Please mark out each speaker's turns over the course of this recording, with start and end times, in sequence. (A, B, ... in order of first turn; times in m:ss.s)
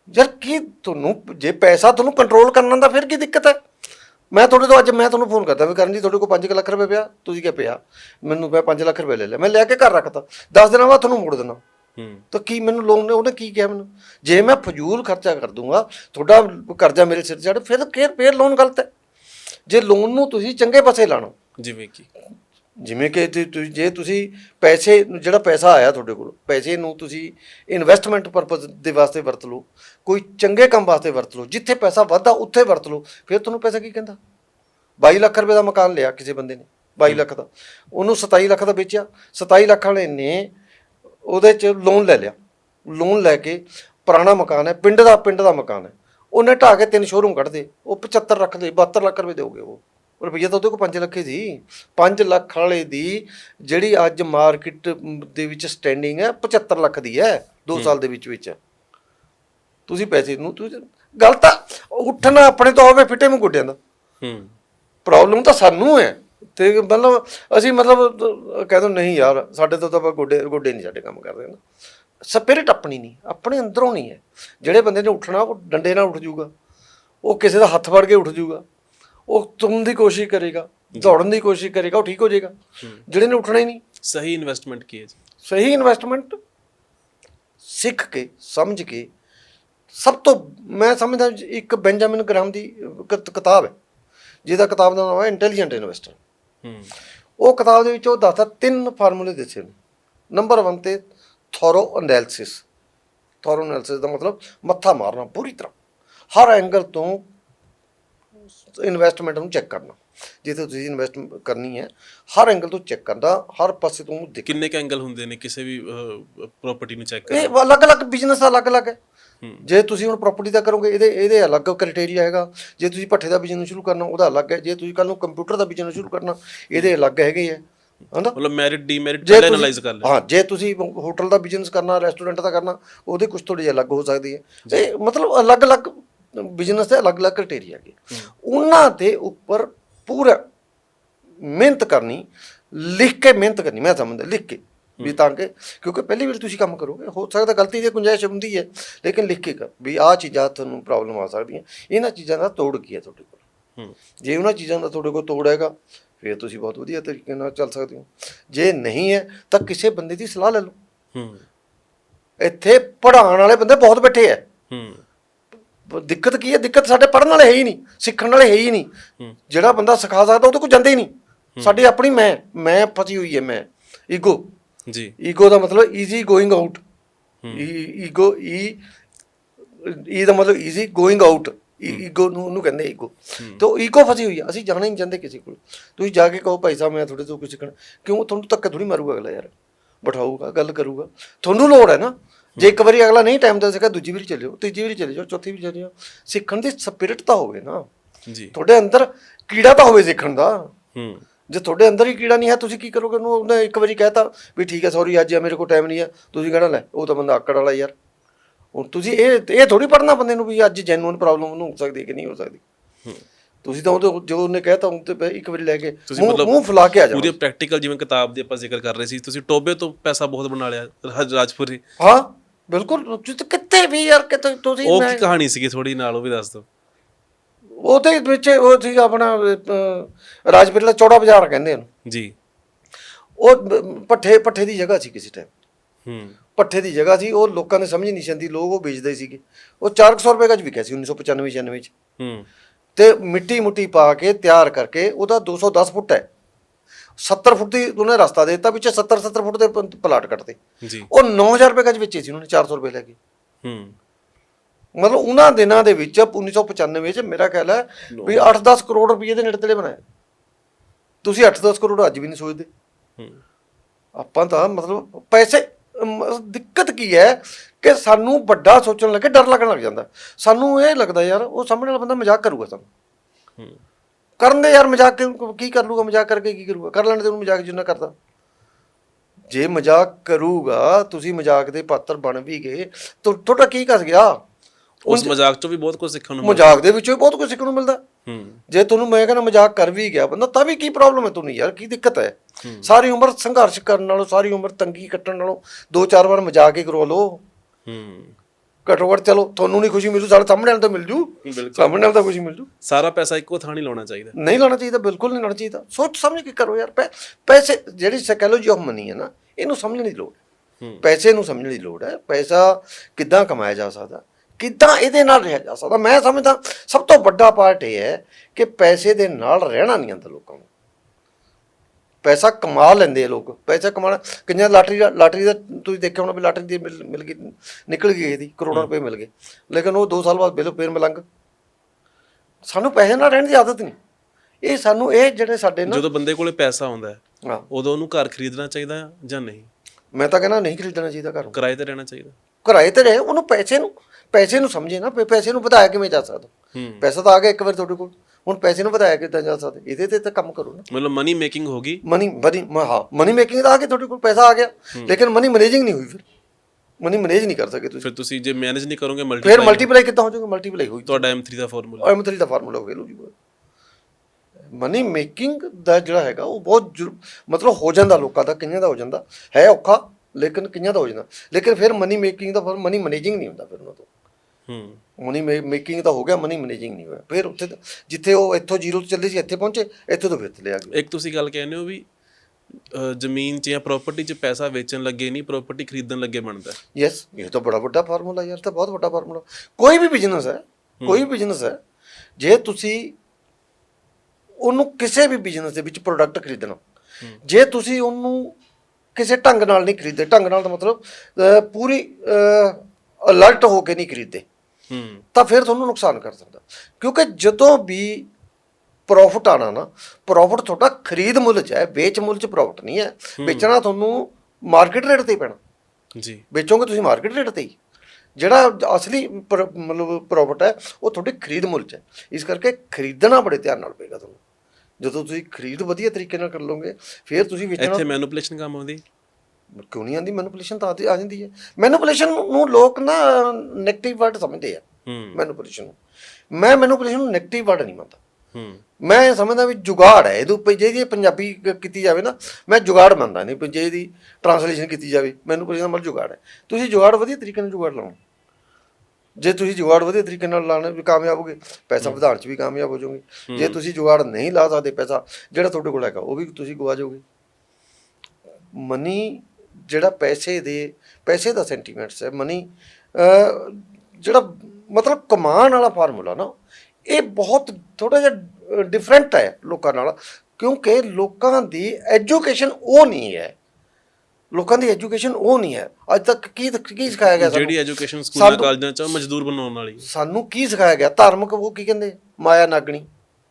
0:00.1-0:03.6 A
0:04.3-0:11.6 A
0:12.0-0:12.2 B
0:12.3-0:18.9 A
0:19.7-0:21.4 A
0:21.6-0:22.1 B
0:22.8-0:34.2 A
0:35.0-0:40.5 A
0:41.3-0:42.3 A
0:42.9-0:58.6 A
0:59.9-1:03.8 A
1:04.2-1:04.5 B
1:05.1-1:11.6 A
1:12.3-1:16.5 A
1:17.2-1:18.6 A
1:19.3-1:23.8 A
1:24.1-1:25.2 B
1:25.4-1:26.4 A
1:27.6-1:29.1 A
1:29.9-1:33.7 A
1:34.5-1:36.2 A
1:36.6-1:36.9 B
1:37.4-1:39.7 A
1:40.3-1:41.0 A
1:41.5-1:42.6 A
1:43.4-1:45.7 A
1:46.3-1:47.2 A
1:48.7-1:54.6 A
1:54.5-1:57.5 B
1:57.3-1:59.0 A
1:59.6-2:08.4 A
2:08.3-2:10.1 B
2:09.2-2:20.4 A
2:21.4-2:33.4 A
2:34.2-2:40.7 A
2:41.2-2:41.4 B
2:42.4-2:44.4 A
2:44.7-2:45.0 B
2:45.9-2:48.9 A
2:49.5-2:54.5 A
2:54.9-2:55.1 B
2:55.2-2:56.8 A
2:57.5-2:58.8 A
2:59.8-3:09.5 A
3:10.0-3:17.9 A
3:18.3-3:18.5 B
3:18.5-3:20.7 A
3:21.0-3:21.2 B
3:21.5-3:27.9 A
3:28.8-3:32.6 A
3:33.6-3:37.4 A
3:36.1-3:36.6 B
3:37.1-3:41.8 B
3:42.0-3:45.2 A
3:44.8-3:46.7 B
3:47.8-3:51.9 A
3:52.1-3:52.4 B
3:53.4-3:55.5 A
3:56.1-3:56.4 B
3:56.6-4:01.9 A
4:02.2-4:02.5 B
4:03.0-4:06.2 A
4:07.2-4:10.6 A
4:10.8-4:11.1 B
4:11.1-4:13.2 A
4:13.6-4:14.0 B
4:15.0-4:20.0 A
4:18.1-4:18.5 B
4:21.2-4:22.7 A
4:24.2-4:32.9 A
4:34.4-4:38.1 A
4:39.5-4:44.4 A
4:45.1-4:46.8 B
4:45.1-4:45.3 A
4:46.4-4:48.0 A
4:48.3-4:48.6 B
4:48.7-4:57.4 A
4:52.6-4:52.9 B
4:57.9-4:58.4 B
4:58.8-5:02.7 A
5:01.4-5:02.1 B
5:02.8-5:04.4 B
5:04.4-5:10.4 A
5:11.0-5:20.7 A
5:22.2-5:31.2 A
5:32.7-5:34.0 A
5:34.6-5:36.0 A
5:35.9-5:39.7 B
5:40.2-5:41.6 A
5:41.5-5:42.4 B
5:42.6-5:50.9 A
5:46.8-5:47.0 B
5:50.9-5:52.0 B
5:52.0-5:56.2 A
5:57.0-5:58.1 A
5:58.0-5:59.9 B
5:59.4-6:01.3 A
6:01.1-6:02.1 B
6:02.0-6:03.3 A
6:04.7-6:14.1 A
6:14.7-6:15.0 B
6:15.2-6:20.9 A
6:20.9-6:22.0 B
6:22.9-6:26.8 B
6:27.0-6:31.8 A
6:31.0-6:31.3 B
6:32.4-6:33.2 A
6:34.6-6:36.8 A
6:37.4-6:38.6 A
6:39.2-6:44.4 A
6:44.9-6:45.2 B
6:45.3-6:48.3 A
6:49.1-6:55.6 A
6:53.4-6:53.7 B
6:56.2-6:56.4 B
6:56.5-6:57.7 A
6:58.4-7:04.4 A
7:05.0-7:08.0 A
7:07.8-7:09.0 B
7:09.8-7:14.8 A
7:15.1-7:15.4 B
7:15.3-7:16.0 A
7:16.5-7:18.2 A
7:18.5-7:18.8 B
7:19.0-7:28.2 A
7:29.4-7:37.2 A
7:33.5-7:33.8 B
7:38.7-7:46.5 A
7:47.1-7:53.5 A
7:54.5-7:57.8 A
7:57.1-8:00.1 B
7:58.3-7:58.7 A
8:00.0-8:03.1 A